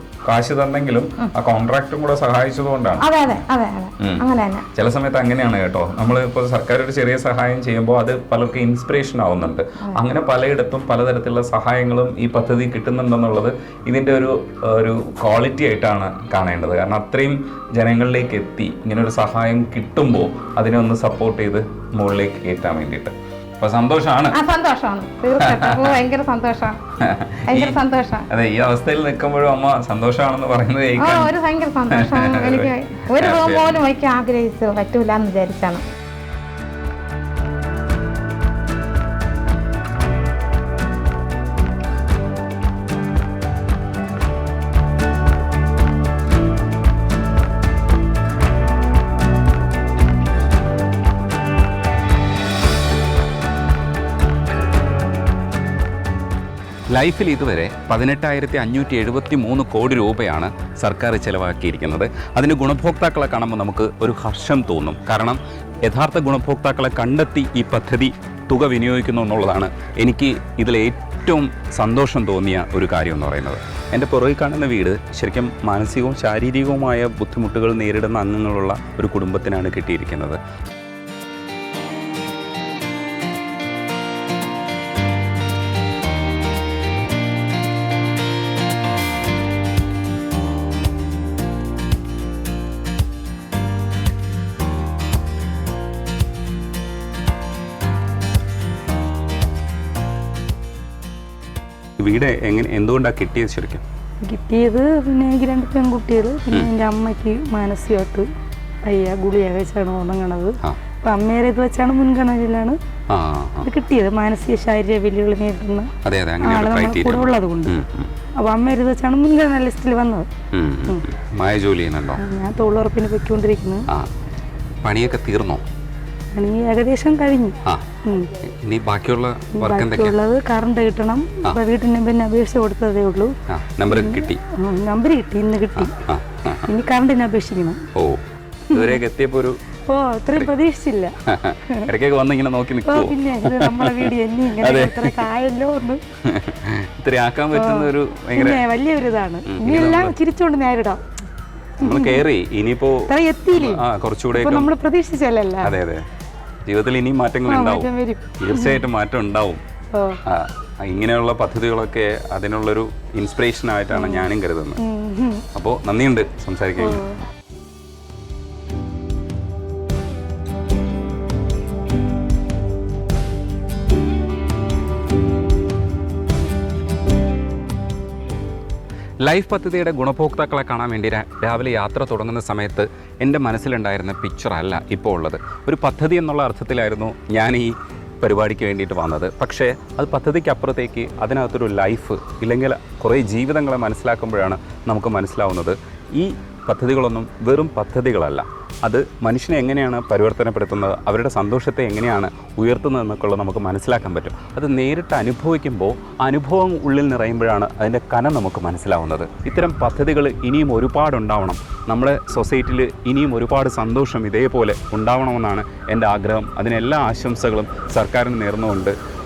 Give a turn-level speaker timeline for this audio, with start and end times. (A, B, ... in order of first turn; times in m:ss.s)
0:00.2-0:03.1 A
0:03.0-0:04.6 B
0:04.7-0:24.4 A
0:24.3-0:26.8 B
0:25.4-0:26.0 A
0:27.0-0:27.8 A
0:27.5-0:28.2 B
0:28.3-0:31.4 A
0:31.0-0:35.8 B
0:31.9-0:33.8 A
0:56.9-1:20.4 A
1:42.0-1:43.8 A
1:44.2-1:48.3 C
1:48.8-1:52.8 C
1:53.1-1:53.7 A
1:53.6-1:57.8 C
1:56.0-1:58.1 A
1:58.4-2:00.3 C
2:00.5-2:02.2 A
2:02.2-2:03.9 C
2:04.8-2:05.6 A
2:06.3-2:08.3 C
2:08.4-2:10.2 A
2:09.5-2:13.3 C
2:13.5-2:14.4 A
2:13.9-2:15.9 C
2:15.8-2:16.7 A
2:16.7-2:17.8 C
2:18.7-2:19.0 C
2:18.7-2:19.6 A
2:19.9-2:21.1 C
2:21.3-2:25.2 A
2:22.8-2:26.0 C
2:26.2-2:28.6 A
2:27.5-2:31.0 C
2:29.4-2:30.2 A
2:31.8-2:32.3 C
2:31.8-2:34.7 A
2:33.1-2:35.8 C
2:35.6-2:36.0 A
2:36.7-2:37.9 A
2:37.4-2:38.8 C
2:38.4-2:39.6 A
2:40.3-2:44.8 A
2:43.9-2:45.4 C
2:45.5-2:47.0 A
2:46.8-2:47.1 C
2:59.2-3:38.9 A